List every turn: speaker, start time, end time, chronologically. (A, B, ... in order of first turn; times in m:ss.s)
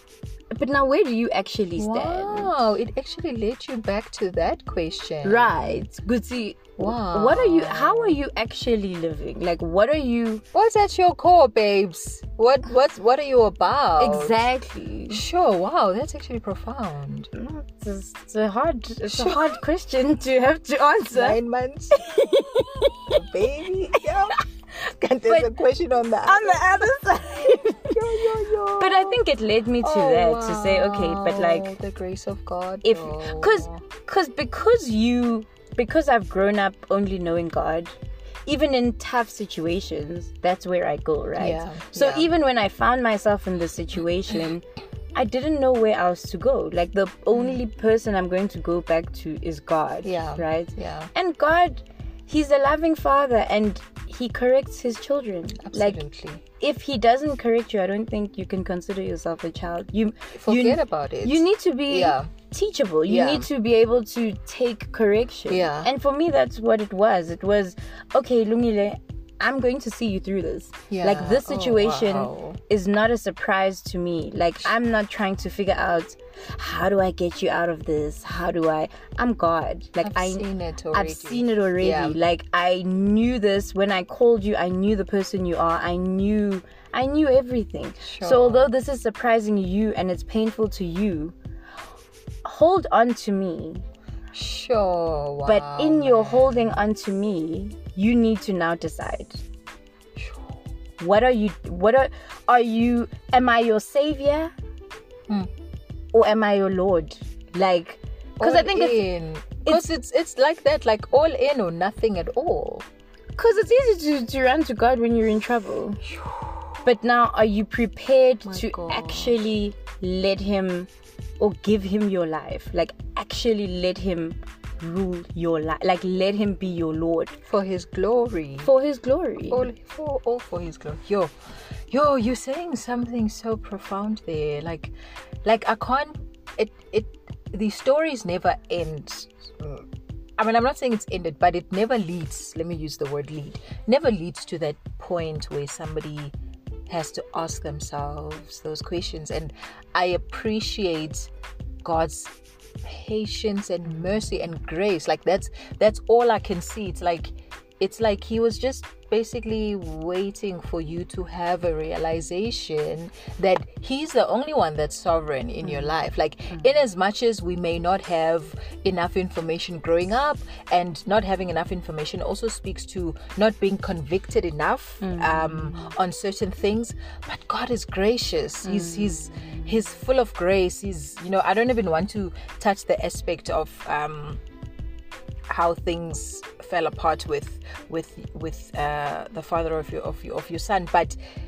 0:00.5-0:02.5 A
0:01.8-0:05.7 B
0:05.2-0:10.4 A
0:06.8-0:08.2 B
0:10.5-0:14.4 B
0:14.0-0:15.2 A
0:15.1-0:17.3 B
0:17.3-0:21.4 A
0:19.1-0:19.6 B
0:21.1-0:22.2 B
0:21.9-0:23.2 A
0:23.0-0:29.2 B
0:24.0-0:24.4 A
0:26.2-0:31.7 A
0:29.8-0:33.8 B
0:32.8-0:56.0 A
0:41.4-0:42.3 B
0:50.0-0:51.1 B
0:55.6-0:56.4 B
0:56.6-1:31.3 A
1:00.3-1:02.3 B
1:03.1-1:03.5 B
1:05.5-1:05.9 B
1:10.9-1:12.6 B
1:20.0-1:22.2 B
1:28.0-1:28.7 B
1:32.4-1:33.8 A
1:34.3-1:36.8 B
1:35.4-1:39.4 A
1:40.1-1:40.5 B
1:41.0-1:44.5 A
1:46.1-1:49.0 A
1:48.4-1:52.8 B
1:53.4-1:56.0 A
1:56.0-1:56.8 B
1:56.8-2:00.9 A
1:58.5-1:59.5 B
2:01.4-2:07.4 A
2:07.5-2:08.7 B
2:08.6-2:09.7 A
2:09.5-2:11.3 B
2:11.9-2:19.8 B
2:20.4-2:26.3 B
2:26.9-2:31.3 B
2:31.8-3:04.4 B
2:55.0-2:55.9 A
2:58.6-2:59.7 A
3:05.5-3:11.2 B